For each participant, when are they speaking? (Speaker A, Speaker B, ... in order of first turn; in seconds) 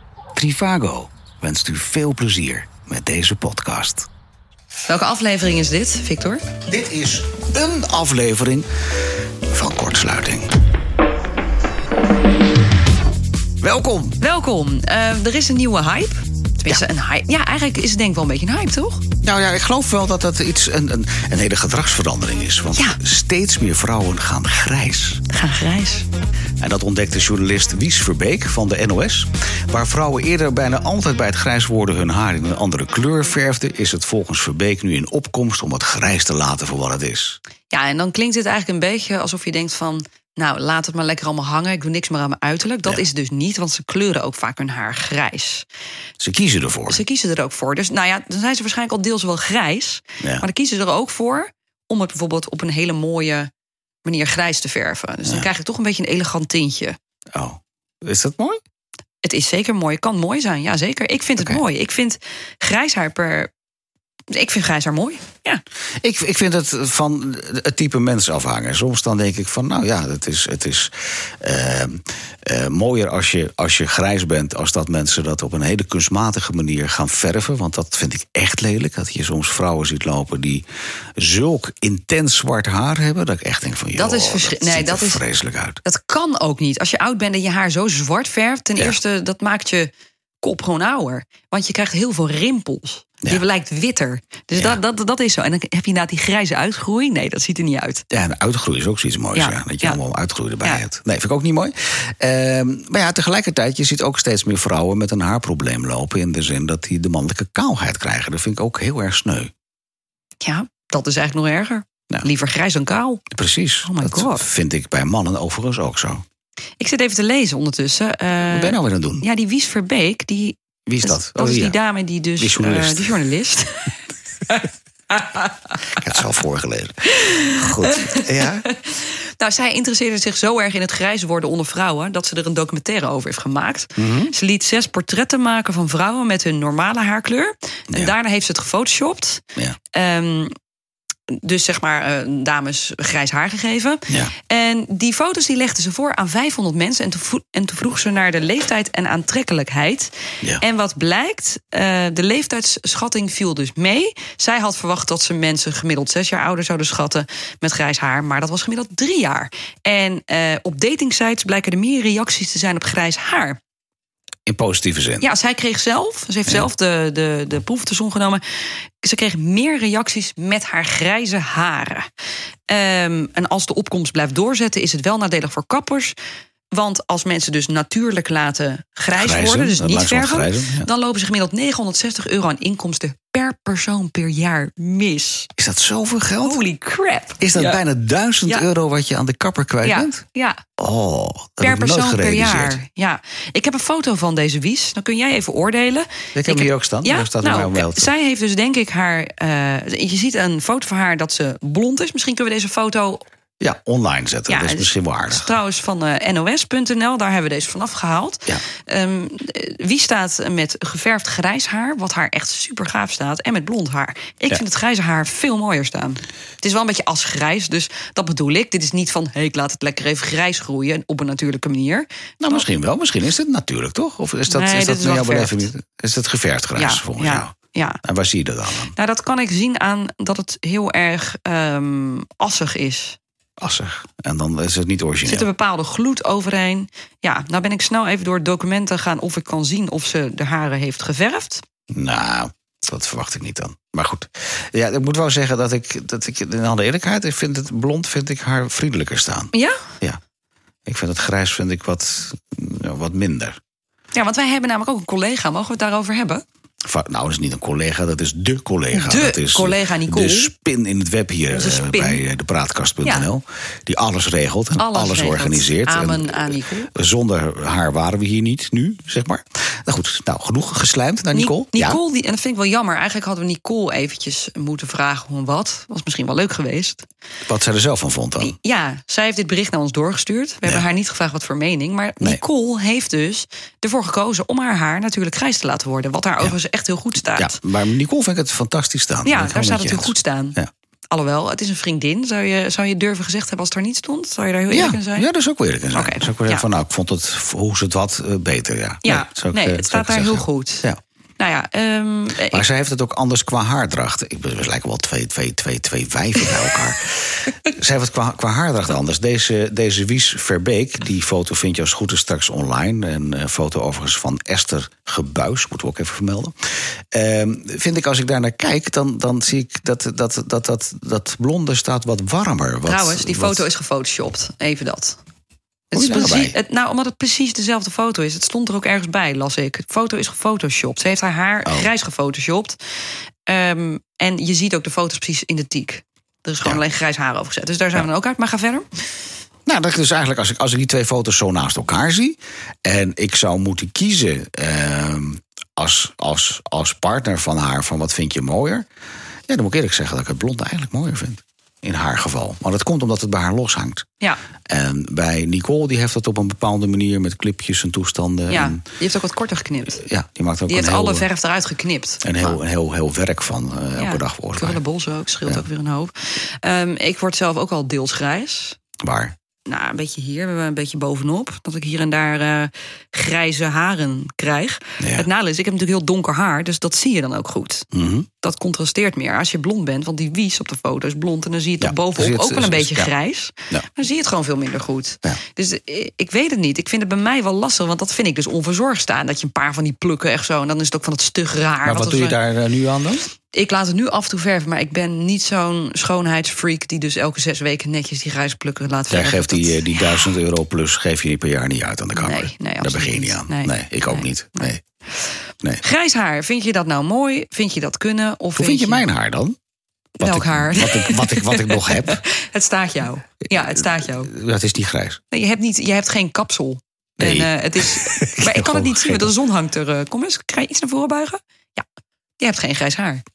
Speaker A: 0.3-4.1, 6.7-8.7, 9.5-10.5, 13.6-14.2, 19.2-25.2, 26.6-37.4, 46.2-47.0, 50.2-50.5, 57.3-58.6, 66.0-80.6, 81.2-85.8, 94.5-94.8, 98.1-109.5, 113.3-116.2, 118.5-119.2, 120.9-121.8, 122.4-123.2, 126.0-128.7, 134.0-134.3, 164.5-165.3, 179.1-180.9, 185.6-186.6, 187.4-190.2, 190.8-192.8, 196.3-198.1, 203.6-205.5, 222.4-227.5, 228.0-228.9, 233.6-235.5, 241.9-250.2, 250.8-253.6, 256.8-272.0, 277.5-278.5, 287.2-290.7, 294.7-301.0, 302.5-316.5, 317.1-323.6, 325.9-326.6, 339.7-348.8, 349.5-354.1, 354.7-358.8, 359.9-361.3, 362.2-364.8, 369.0-369.3, 375.0-375.3, 377.9-378.3, 381.8-383.1, 391.8-393.3, 399.1-404.8, 408.6-409.6, 410.2-412.2, 413.6-415.2, 417.2-419.3
Speaker B: 4.9-6.4, 14.2-19.0, 22.7-23.0, 25.3-26.1, 37.7-45.6, 46.9-53.5, 54.0-57.0, 59.2-63.5, 64.3-65.6, 83.9-85.2, 85.8-98.0, 99.3-100.0, 110.4-113.2, 113.8-114.5, 116.8-124.0, 124.5-125.5, 127.1-140.5, 141.3-163.6, 165.2-172.1, 172.7-176.2, 176.7-185.5, 186.4-187.8, 189.8-190.6, 191.6-203.2, 204.5-222.7, 224.5-225.7, 226.8-228.0, 228.9-233.2, 235.2-241.6, 249.5-249.8, 254.1-256.4, 258.9-260.5, 261.5-262.2, 264.8-266.9, 271.3-277.1, 278.4-287.6, 289.2-290.6, 291.1-295.3, 295.9-296.7, 299.0-300.9, 301.4-302.6, 322.8-325.2, 325.9-332.8, 333.4-339.0, 358.5-360.0, 360.7-362.6, 363.9-368.8, 369.6-377.9, 378.4-392.4, 393.5-400.3, 402.1-404.7, 405.8-409.1, 410.2-414.3, 415.3-421.8, 422.4-423.2